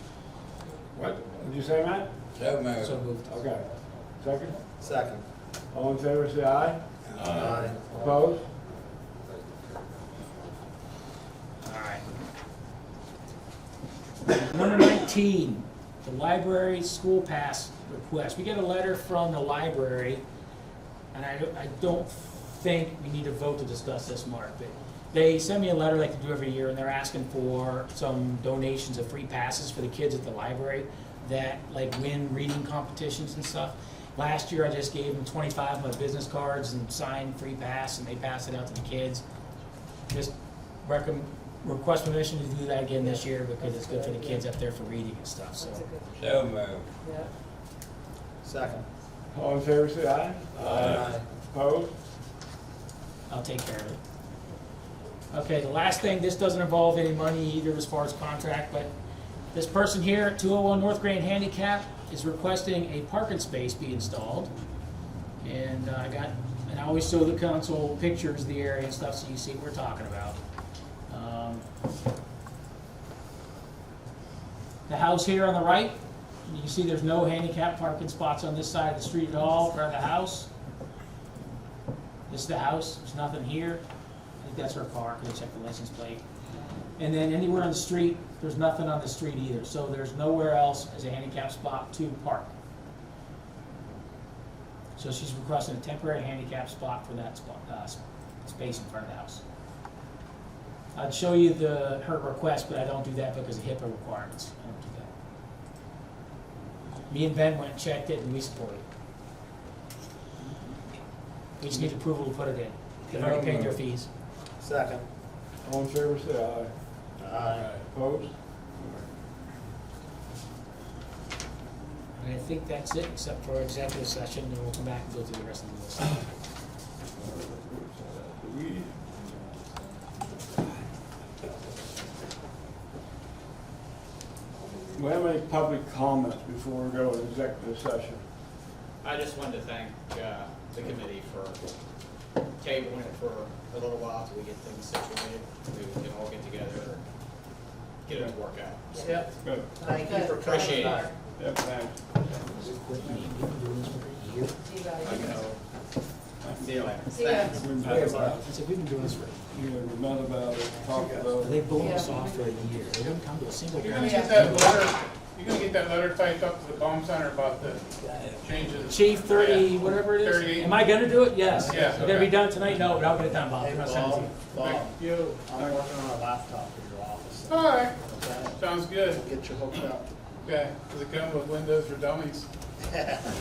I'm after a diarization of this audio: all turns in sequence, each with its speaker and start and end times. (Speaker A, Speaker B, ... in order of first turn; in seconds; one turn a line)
Speaker A: 0.9-2.1
Speaker B: 2.3-3.0
Speaker C: 2.8-3.3
Speaker A: 3.2-3.7
Speaker A: 4.2-4.6
Speaker D: 4.8-5.2
Speaker A: 5.7-6.8
Speaker B: 7.1-8.1
Speaker D: 7.2-7.8
Speaker A: 7.8-8.4
Speaker B: 9.2-10.1
Speaker C: 11.6-12.0
Speaker C: 14.3-20.2
Speaker C: 21.1-39.2
Speaker C: 40.1-45.9
Speaker E: 43.0-44.4
Speaker E: 45.6-46.2
Speaker B: 46.2-46.9
Speaker E: 47.0-47.3
Speaker D: 48.4-48.8
Speaker A: 49.3-51.9
Speaker B: 50.6-51.0
Speaker D: 50.8-51.2
Speaker C: 53.3-54.0
Speaker C: 55.3-58.9
Speaker C: 59.5-64.5
Speaker C: 65.4-70.4
Speaker C: 71.1-71.6
Speaker C: 74.9-80.5
Speaker C: 82.3-83.8
Speaker C: 84.4-86.2
Speaker C: 87.0-92.5
Speaker C: 95.0-99.4
Speaker C: 100.9-105.1
Speaker C: 107.1-108.8
Speaker C: 111.6-114.1
Speaker B: 113.2-113.7
Speaker D: 114.6-115.1
Speaker A: 115.6-116.7
Speaker D: 117.2-117.8
Speaker F: 117.5-117.8
Speaker A: 117.8-119.1
Speaker C: 122.1-126.2
Speaker A: 127.1-129.4
Speaker A: 134.9-138.2
Speaker F: 139.0-141.6
Speaker F: 142.6-147.0
Speaker F: 148.0-149.3
Speaker E: 148.9-151.1
Speaker A: 149.4-149.7
Speaker F: 149.8-151.1
Speaker D: 149.9-151.1
Speaker A: 151.3-152.0
Speaker C: 152.2-154.6
Speaker E: 154.6-155.4
Speaker F: 155.0-155.6
Speaker A: 156.4-156.8
Speaker F: 156.6-158.1
Speaker E: 157.1-157.7
Speaker A: 157.5-158.4
Speaker B: 157.9-158.3
Speaker D: 157.9-158.4
Speaker C: 158.2-159.4
Speaker A: 159.5-161.8
Speaker C: 161.4-164.8
Speaker E: 161.7-162.5
Speaker G: 163.8-170.8
Speaker E: 163.9-164.6
Speaker C: 168.8-174.3
Speaker G: 171.6-172.3
Speaker D: 173.6-180.1
Speaker G: 174.5-175.8
Speaker G: 177.5-178.0
Speaker G: 178.6-179.2
Speaker G: 180.4-182.5